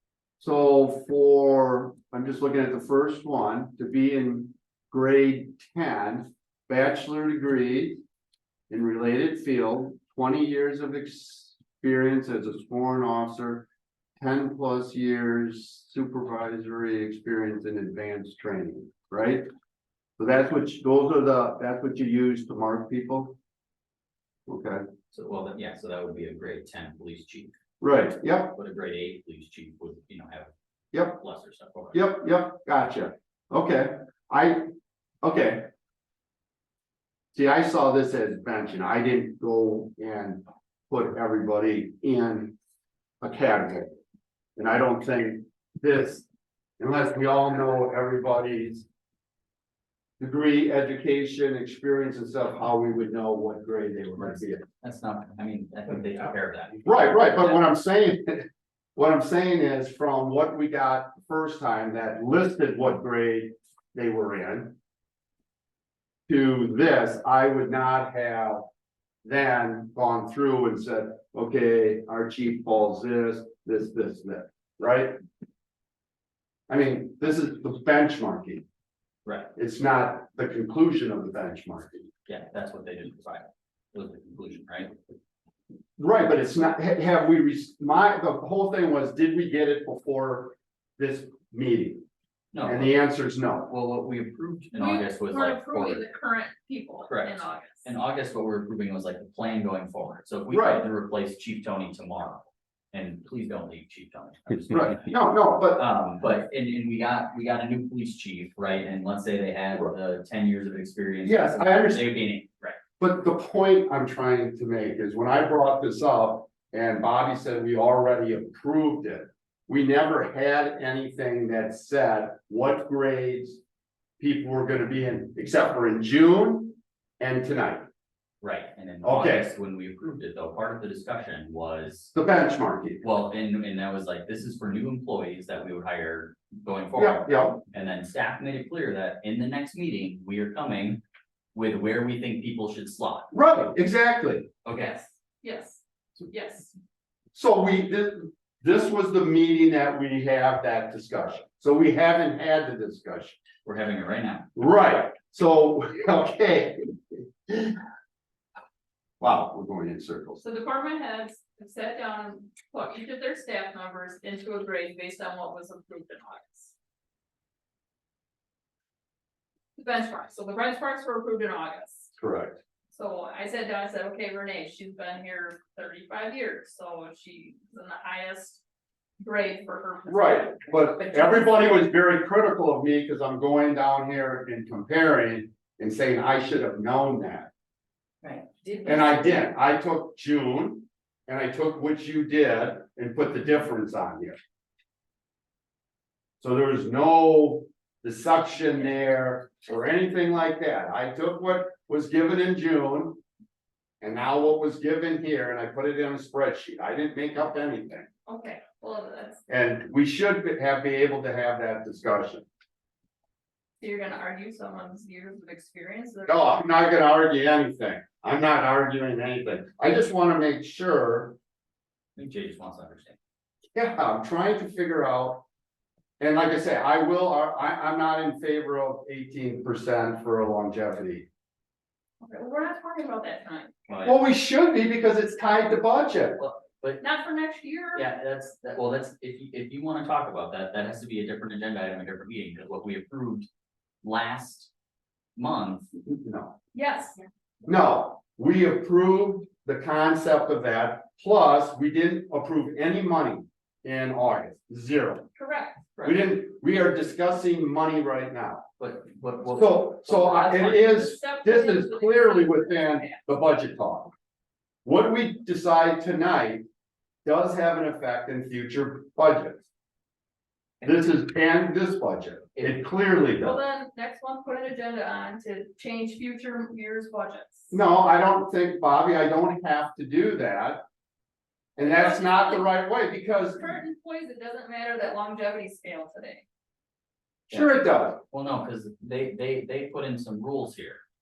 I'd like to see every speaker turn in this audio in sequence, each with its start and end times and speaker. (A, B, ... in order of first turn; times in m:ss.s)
0:00.4-0:08.0 A
0:08.7-0:13.6 A
0:14.2-0:19.5 A
0:20.2-0:23.4 A
0:24.5-0:24.8 A
0:25.1-0:27.5 B
0:27.8-0:28.6 A
0:28.5-0:30.5 B
0:30.9-0:31.2 A
0:31.1-0:32.0 B
0:31.9-0:34.7 A
0:35.2-0:35.7 A
0:37.3-0:42.6 A
0:43.2-0:43.9 A
0:44.6-0:46.2 A
0:46.8-0:48.8 A
0:50.2-0:54.6 A
0:54.6-0:57.6 B
0:56.8-1:04.8 A
1:06.3-1:08.6 A
1:09.2-1:15.2 A
1:16.7-1:18.6 A
1:19.2-1:19.5 B
1:19.5-1:22.1 A
1:22.2-1:24.9 B
1:26.0-1:32.0 A
1:32.5-1:32.9 B
1:32.6-1:33.7 A
1:33.7-1:36.0 B
1:34.7-1:37.9 C
1:37.1-1:45.2 B
1:40.5-1:40.8 A
1:44.7-1:45.9 A
1:45.7-1:52.8 B
1:51.2-1:52.0 A
1:53.0-2:03.6 A
2:04.2-2:07.9 A
2:08.4-2:12.1 B
2:09.0-2:09.5 A
2:12.1-2:13.0 A
2:13.0-2:21.0 B
2:17.0-2:17.6 A
2:21.5-2:23.3 B
2:23.3-2:24.5 A
2:24.6-2:25.0 B
2:24.7-2:26.7 C
2:27.3-2:33.4 A
2:33.6-2:34.5 B
2:34.6-2:37.8 A
2:39.2-2:40.4 A
2:40.4-2:46.7 C
2:49.8-2:52.1 C
2:52.2-2:52.6 A
2:52.9-2:58.6 C
2:59.2-3:01.6 C
3:00.1-3:07.5 A
3:08.2-3:09.3 C
3:08.8-3:14.4 A
3:16.4-3:23.2 A
3:24.0-3:28.1 A
3:28.3-3:29.4 C
3:29.5-3:32.4 A
3:33.8-3:36.6 C
3:36.3-3:41.4 A
3:42.2-3:43.2 B
3:43.7-3:45.4 A
3:46.2-3:51.2 A
3:52.2-3:53.7 C
3:53.9-3:54.2 B
3:54.0-3:56.4 A
3:56.4-3:57.0 B
3:57.0-3:58.0 C
3:57.9-4:03.5 B
4:04.0-4:04.7 B
4:05.4-4:05.9 B
4:06.0-4:06.5 A
4:06.7-4:07.2 C
4:07.6-4:15.3 A
4:15.4-4:15.8 C
4:16.0-4:16.2 B
4:16.0-4:18.6 A
4:18.8-4:21.0 B
4:19.5-4:24.1 A
4:20.9-4:23.2 C
4:24.8-4:26.6 A
4:27.2-4:29.6 A
4:30.8-4:33.6 A
4:33.4-4:37.7 C
4:37.7-4:40.8 A
4:41.8-4:43.8 A
4:41.8-4:42.7 C
4:43.6-4:46.4 C
4:47.5-4:48.2 A
4:48.3-4:51.0 B